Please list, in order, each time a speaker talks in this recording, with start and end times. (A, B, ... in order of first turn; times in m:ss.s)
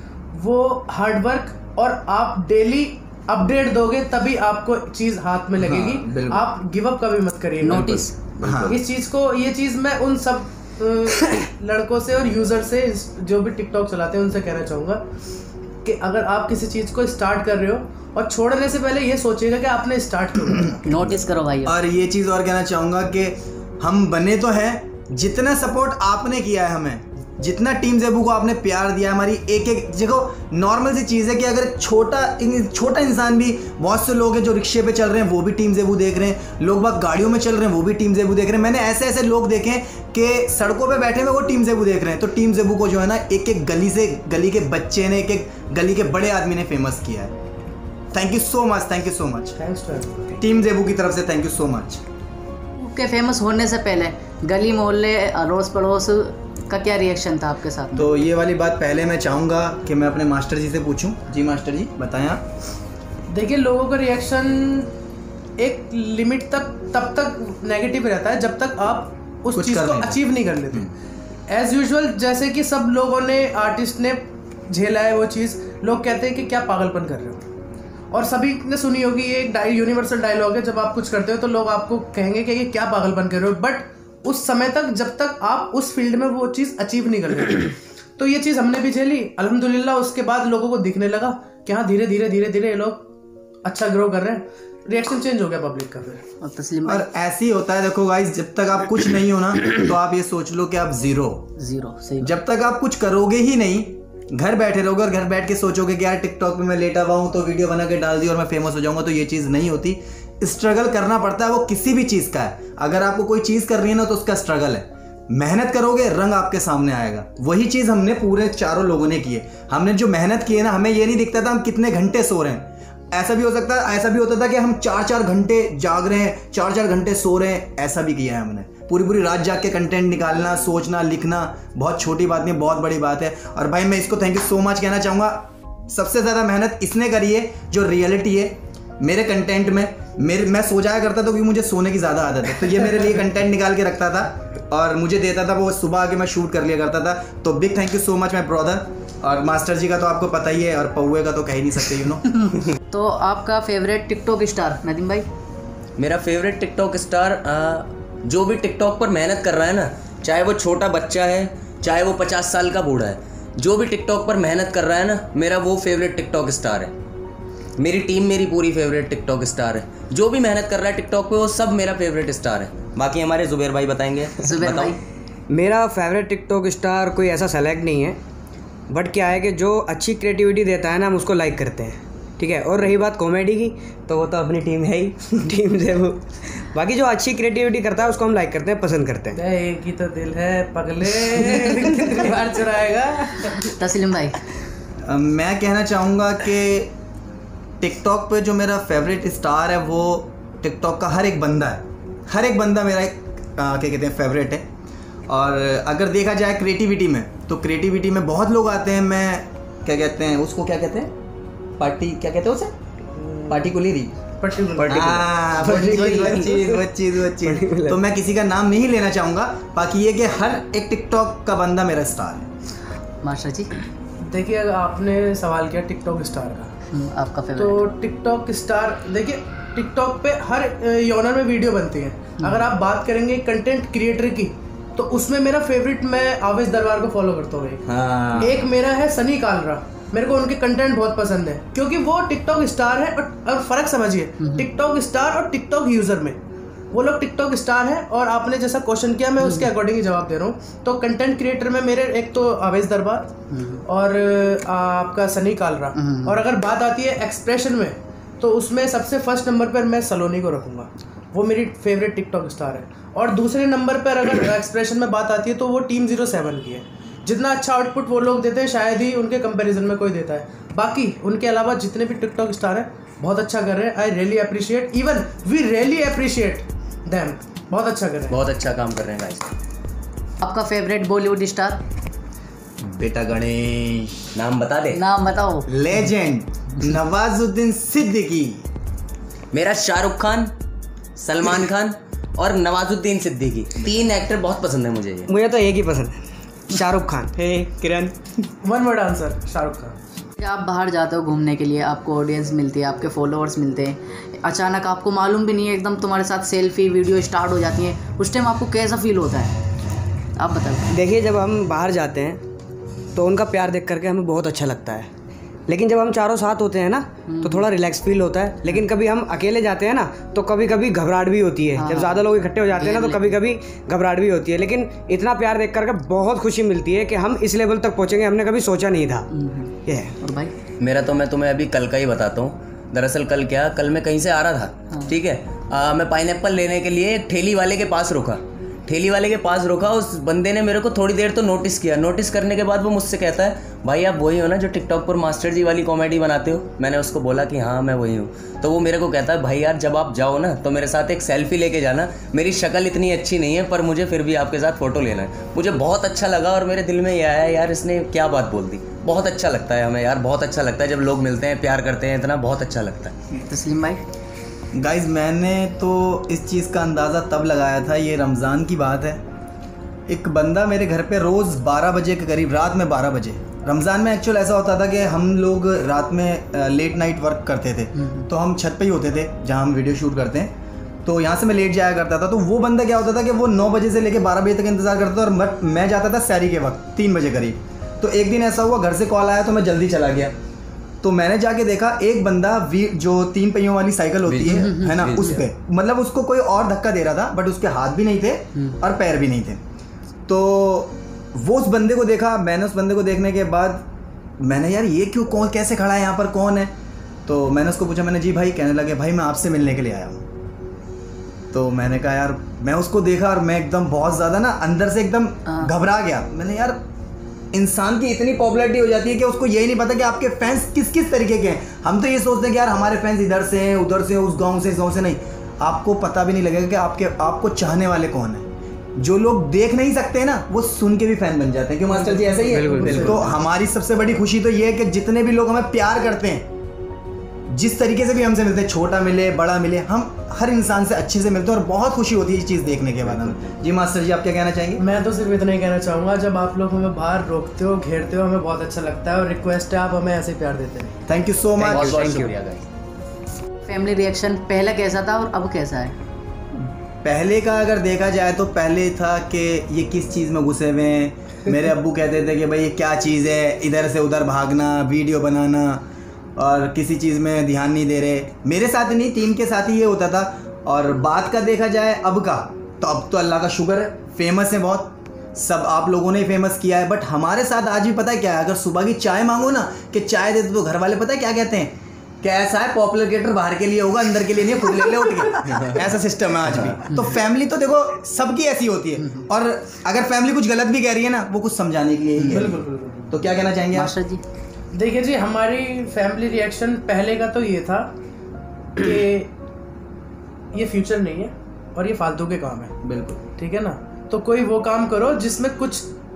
0:00.3-0:08.0 A
0:05.6-0:06.5 B
0:07.6-0:08.2 C
0:08.4-0:08.8 D
0:08.4-0:08.8 B
0:08.7-0:15.0 A
0:15.8-0:20.8 A
0:20.8-0:47.3 B
0:20.8-0:21.8 C
0:48.1-0:49.6 B
0:49.6-0:50.4 A
0:50.4-0:52.0 B
0:52.8-0:58.0 C
0:57.9-1:02.4 B
1:03.3-1:04.9 A
1:05.6-1:10.9 A
1:09.5-1:10.2 B
1:11.5-1:17.4 A
1:18.1-1:33.1 A
1:33.6-1:36.2 A
1:36.4-1:37.1 C
1:36.8-1:41.5 B
1:41.6-1:42.3 C
1:42.2-2:32.2 B
2:32.9-2:35.2 C
2:36.0-2:46.9 D
2:47.8-2:55.0 D
2:54.4-2:55.0 C
2:55.5-2:58.2 E
2:58.9-3:09.4 E
3:09.3-3:13.7 A
3:13.6-3:14.4 C
3:15.0-3:16.9 B
3:17.8-3:24.7 B
3:25.3-3:31.1 B
3:31.8-3:32.7 B
3:33.2-3:33.7 A
3:33.5-3:34.2 B
3:34.4-3:35.5 A
3:34.7-3:42.5 B
3:35.0-3:36.8 E
3:37.4-3:38.0 E
3:43.2-3:43.7 C
3:44.2-3:46.7 A
3:46.9-3:47.9 C
3:47.6-3:57.8 A
3:52.4-3:52.7 C
3:57.9-3:58.6 B
3:58.4-4:06.4 A
4:06.9-4:13.3 A
4:09.4-4:09.7 C
4:13.5-4:13.8 C
4:13.9-4:38.4 A
4:16.0-4:16.4 C
4:38.3-4:39.5 D
4:40.4-4:41.8 C
4:42.8-4:44.4 B
4:44.4-4:45.0 D
4:44.9-4:45.7 C
4:45.7-4:48.6 B
4:49.5-4:50.5 D
4:51.2-4:55.3 D
4:55.3-4:56.1 E
4:56.7-4:58.2 E
4:58.6-5:00.0 A
5:00.4-5:09.6 C
5:10.4-5:10.9 C
5:10.9-5:12.4 E
5:13.1-5:15.1 E
5:15.7-5:29.3 E
5:17.3-5:17.7 C
5:21.8-5:23.4 C
5:29.3-5:30.5 C
5:29.9-5:30.2 E
5:30.8-6:03.1 D
6:03.4-6:04.0 C
6:04.7-6:09.2 B
6:10.1-6:30.3 B
6:18.0-6:18.2 C
6:31.0-6:39.6 B
6:34.3-6:35.4 D
6:34.5-6:35.0 C
6:40.3-6:43.9 B
6:44.4-6:46.7 B
6:47.2-6:50.2 B
6:51.5-6:56.8 B
6:57.5-7:16.5 B
7:11.9-7:13.4 A
7:12.4-7:13.2 E
7:17.5-7:24.8 B
7:23.1-7:23.5 D
7:24.8-7:31.0 A
7:31.1-7:32.2 B
7:31.7-7:32.6 D
7:31.7-7:32.3 E
7:33.6-7:36.0 C
7:36.6-8:13.9 B
8:06.5-8:06.8 D
8:12.2-8:13.2 A
8:13.7-8:14.2 C
8:14.7-8:17.9 A
8:18.8-8:19.3 A
8:20.5-8:22.8 A
8:22.8-8:23.2 B
8:23.4-8:25.9 A